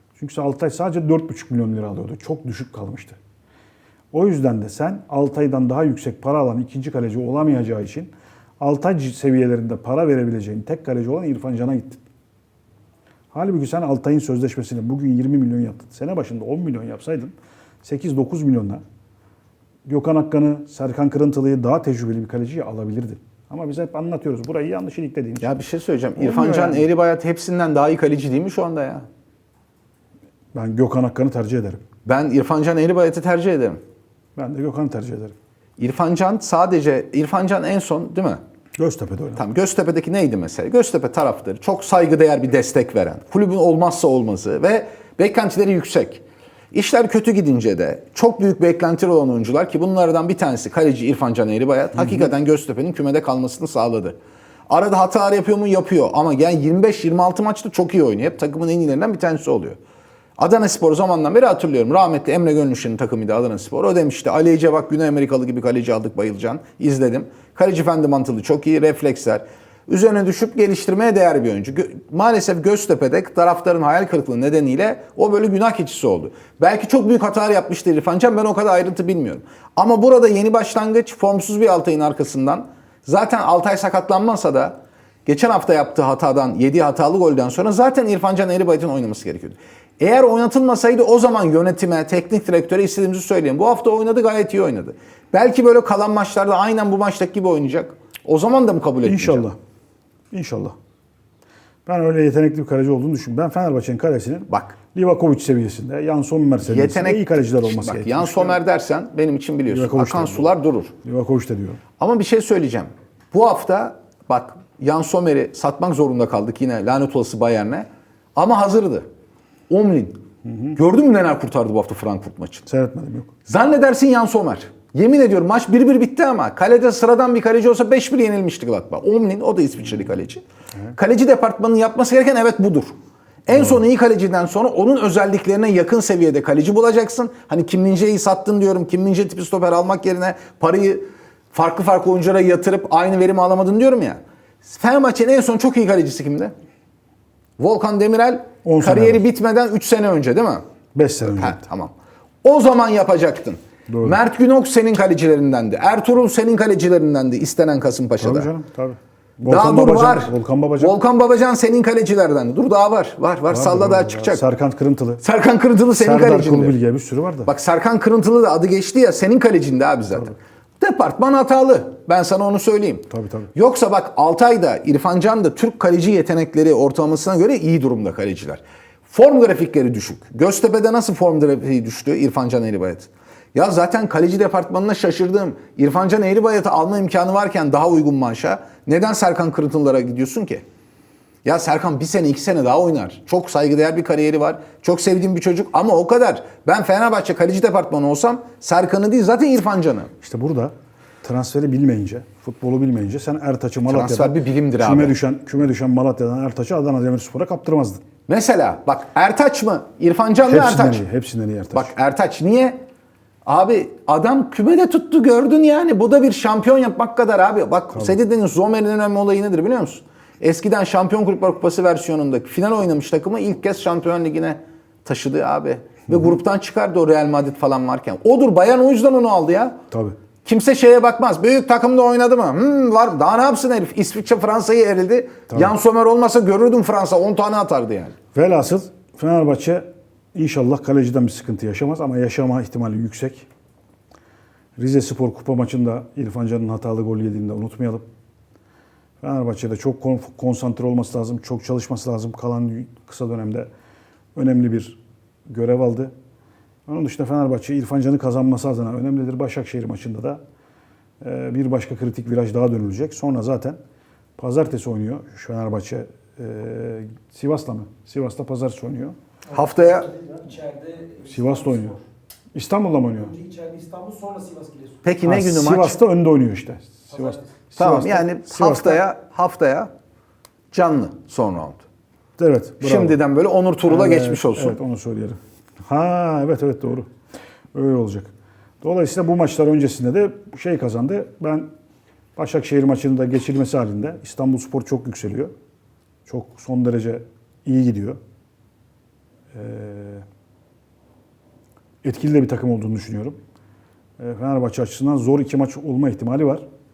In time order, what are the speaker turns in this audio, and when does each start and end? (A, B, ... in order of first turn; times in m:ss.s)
0:00.2-0:03.2 A
0:04.1-0:12.0 A
0:13.3-0:18.8 A
0:19.9-0:25.6 A
0:25.4-0:29.0 B
0:26.2-0:26.9 A
0:30.5-0:31.8 A
0:32.0-0:33.8 B
0:34.4-0:35.3 A
0:35.8-0:38.4 B
0:38.8-0:39.4 A
0:39.4-0:54.2 B
0:54.7-0:59.8 B
1:00.4-1:39.5 B
1:39.0-1:39.6 A
1:40.3-1:40.7 A
1:41.8-1:48.6 A
1:44.5-1:44.8 B
1:46.6-1:50.9 B
1:49.7-1:50.5 A
1:51.0-1:51.8 A
1:52.0-1:59.0 B
1:59.7-2:00.2 B
2:00.4-2:00.8 A
2:00.8-2:02.7 B
2:02.6-2:03.3 A
2:03.4-2:10.4 B
2:10.9-2:26.5 B
2:27.6-2:30.6 B
2:28.6-2:29.2 A
2:30.9-2:31.6 A
2:31.3-2:31.9 B
2:32.4-2:38.5 B
2:33.9-2:34.2 A
2:38.2-2:41.0 A
2:39.4-2:44.4 B
2:43.5-2:45.2 A
2:45.2-2:46.8 B
2:45.9-2:47.5 A
2:47.4-3:10.6 B
2:53.1-2:53.5 A
3:11.4-3:20.1 B
3:20.2-3:28.0 A
3:23.9-3:25.2 B
3:28.3-3:31.0 B
3:30.4-3:31.9 A
3:31.7-3:32.8 B
3:33.4-3:49.8 B
3:37.9-3:38.2 A
3:50.4-3:58.1 B
3:55.5-3:55.7 A
3:58.3-4:03.5 A
4:04.8-4:08.0 A
4:09.2-4:13.7 A
4:14.3-4:16.1 A
4:16.9-4:20.4 A
4:21.2-4:23.8 A
4:24.4-4:29.1 A
4:29.5-4:30.2 B
4:30.6-4:31.2 C
4:31.2-4:32.0 A
4:32.5-4:33.4 A
4:33.5-4:34.8 C
4:35.0-4:36.0 B
4:35.2-4:39.0 A
4:37.8-4:39.9 B
4:40.7-4:41.8 B
4:42.4-4:43.2 A
4:42.8-4:44.8 B
4:43.8-4:47.1 A
4:47.7-4:51.7 A
4:52.4-4:55.5 A
4:56.2-4:58.2 A
4:59.5-5:00.2 A
5:02.0-5:03.4 A
5:04.2-5:06.6 A